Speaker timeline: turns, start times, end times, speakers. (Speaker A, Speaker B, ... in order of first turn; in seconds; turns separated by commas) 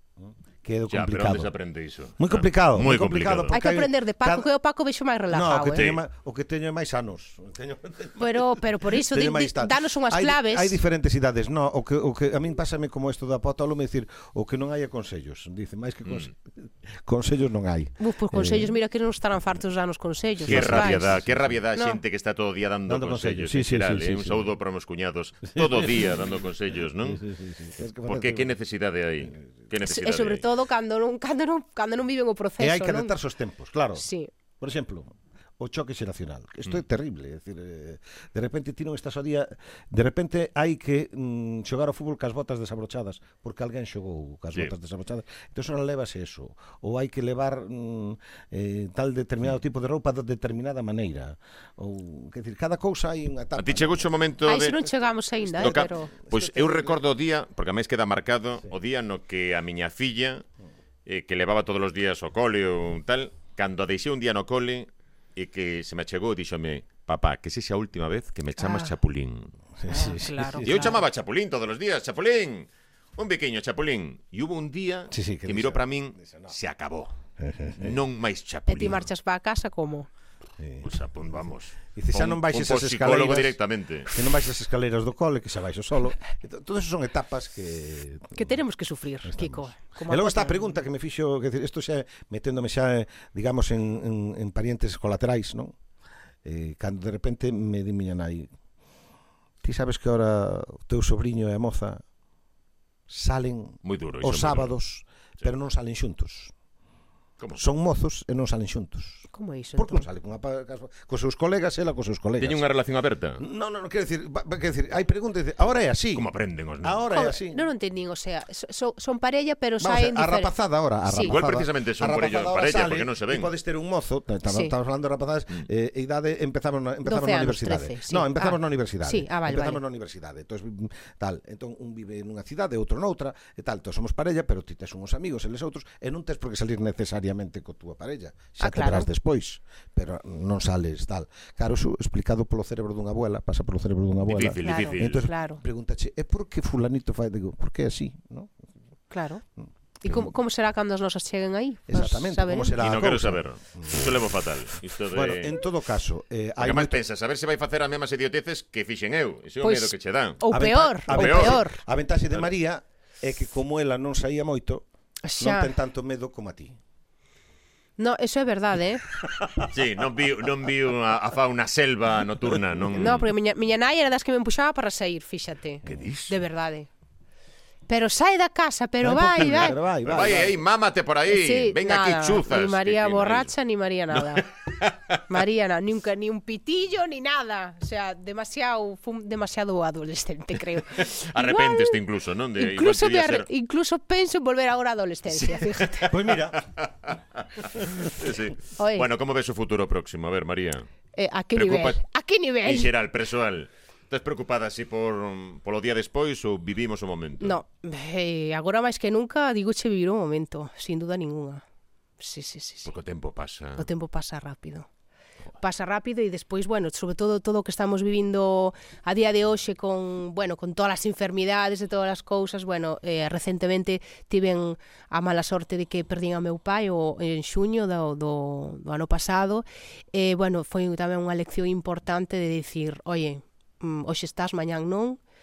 Speaker A: 0.2-1.5, Speaker B: 0.9-3.5, Speaker A: 2.2-4.5, Speaker C: 3.5-5.9, Speaker A: 5.3-18.7, Speaker B: 5.7-6.0, Speaker C: 8.2-10.8, Speaker B: 16.1-16.3, Speaker C: 18.0-21.2, Speaker A: 20.4-21.6, Speaker B: 20.4-27.3, Speaker C: 21.8-22.0, Speaker A: 22.9-24.5, Speaker A: 25.5-26.0, Speaker A: 27.1-28.6, Speaker B: 28.0-30.4, Speaker C: 29.8-33.1, Speaker A: 32.6-34.0, Speaker C: 33.9-34.3, Speaker A: 34.6-54.1, Speaker B: 53.6-54.8, Speaker C: 54.5-56.4, Speaker B: 55.6-60.4, Speaker A: 55.6-56.9, Speaker B: 61.0-69.5, Speaker C: 68.6-68.9, Speaker A: 69.8-71.0, Speaker C: 69.9-71.0, Speaker B: 70.6-77.2, Speaker A: 75.1-76.5, Speaker A: 77.4-78.0, Speaker B: 77.8-79.1, Speaker C: 78.7-80.1, Speaker A: 80.6-80.8, Speaker B: 80.8-84.1, Speaker A: 81.9-88.5, Speaker C: 88.3-90.7, Speaker A: 89.2-95.8, Speaker A: 96.4-98.5, Speaker A: 99.6-102.0, Speaker A: 103.1-106.5, Speaker B: 103.8-104.7, Speaker B: 107.4-107.7, Speaker A: 107.6-109.2, Speaker C: 109.3-110.1, Speaker A: 109.8-112.6, Speaker B: 112.4-113.4, Speaker A: 113.4-116.3, Speaker B: 116.1-117.0, Speaker A: 116.8-117.7, Speaker C: 117.1-120.5, Speaker A: 119.8-148.5, Speaker C: 121.0-121.3, Speaker B: 121.2-123.5, Speaker C: 124.5-124.7, Speaker C: 127.0-129.8, Speaker C: 138.6-139.1, Speaker B: 144.2-145.3, Speaker C: 144.6-145.6, Speaker C: 149.1-149.4, Speaker A: 149.6-150.3, Speaker C: 150.0-152.8, Speaker A: 151.9-154.2, Speaker B: 152.8-155.6, Speaker A: 155.1-157.0, Speaker B: 156.6-160.4, Speaker C: 159.6-161.8, Speaker A: 160.5-164.8, Speaker B: 161.1-161.6, Speaker C: 165.2-165.7, Speaker A: 165.4-166.8, Speaker C: 168.0-169.1, Speaker B: 169.6-173.3, Speaker C: 172.9-176.9, Speaker B: 175.8-176.3, Speaker C: 177.9-179.8, Speaker A: 179.0-180.6, Speaker B: 180.0-183.5, Speaker C: 181.3-184.5, Speaker B: 184.1-185.2, Speaker C: 185.3-192.0, Speaker B: 191.0-193.5, Speaker C: 192.6-196.2, Speaker B: 195.7-196.0, Speaker A: 196.1-196.6, Speaker B: 196.5-200.9, Speaker C: 198.8-199.1, Speaker C: 201.2-202.9, Speaker B: 201.5-202.0, Speaker B: 202.6-207.6, Speaker C: 207.4-211.6, Speaker C: 212.2-212.9, Speaker B: 212.8-213.9, Speaker C: 213.8-214.9, Speaker C: 215.6-235.2